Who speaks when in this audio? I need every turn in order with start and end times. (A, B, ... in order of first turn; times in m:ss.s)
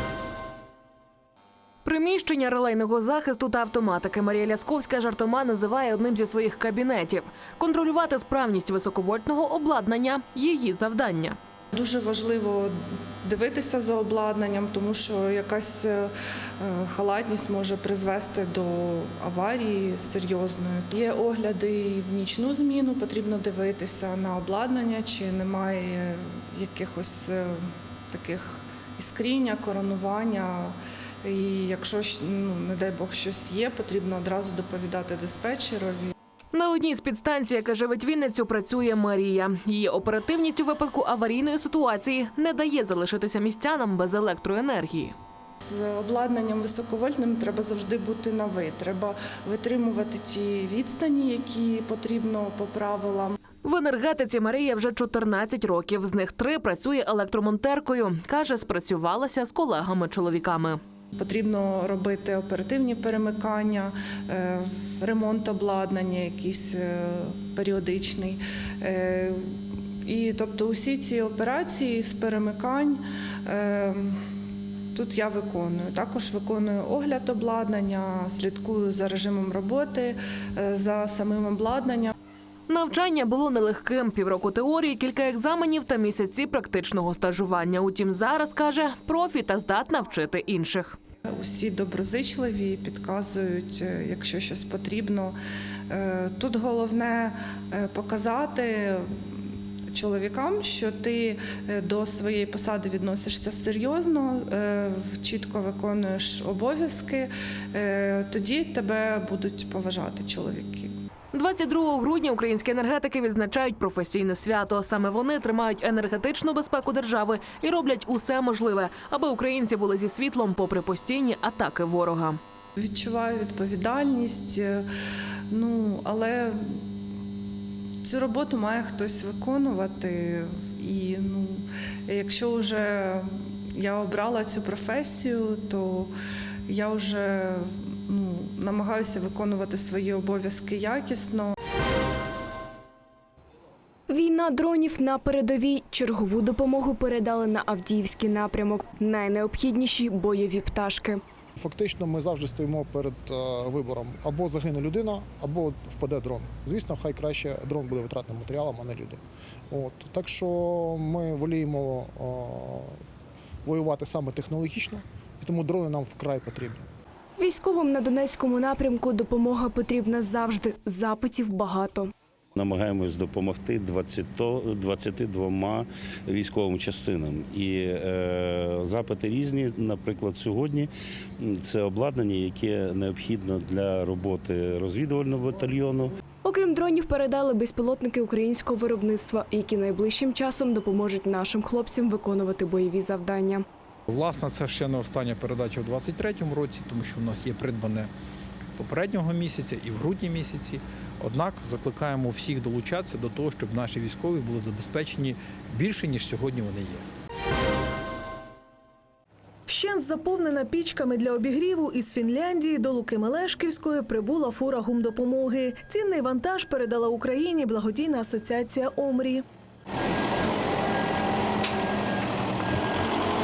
0:01.8-0:11.4 A
0:11.7-0:36.1 B
0:36.5-0:45.1 A
0:45.6-0:53.3 B
0:53.6-1:00.8 A
1:01.2-1:09.5 B
1:10.0-1:14.2 B
1:14.9-1:22.1 B
1:22.7-1:31.0 A
1:31.3-1:35.4 B
1:35.9-1:39.1 B
1:39.9-1:50.9 B
1:51.3-2:02.4 A
2:02.8-2:04.8 B
2:05.5-2:06.8 B
2:08.0-2:16.1 B
2:16.7-2:21.5 B
2:24.1-2:31.2 C
2:31.6-2:39.2 D
2:39.7-2:43.0 D
2:43.6-2:46.8 D
2:47.4-2:52.1 C
2:52.6-3:00.9 E
3:01.4-3:06.1 E
3:06.4-3:13.6 C
3:14.1-3:18.1 F
3:18.8-3:27.0 F
3:29.7-3:39.4 G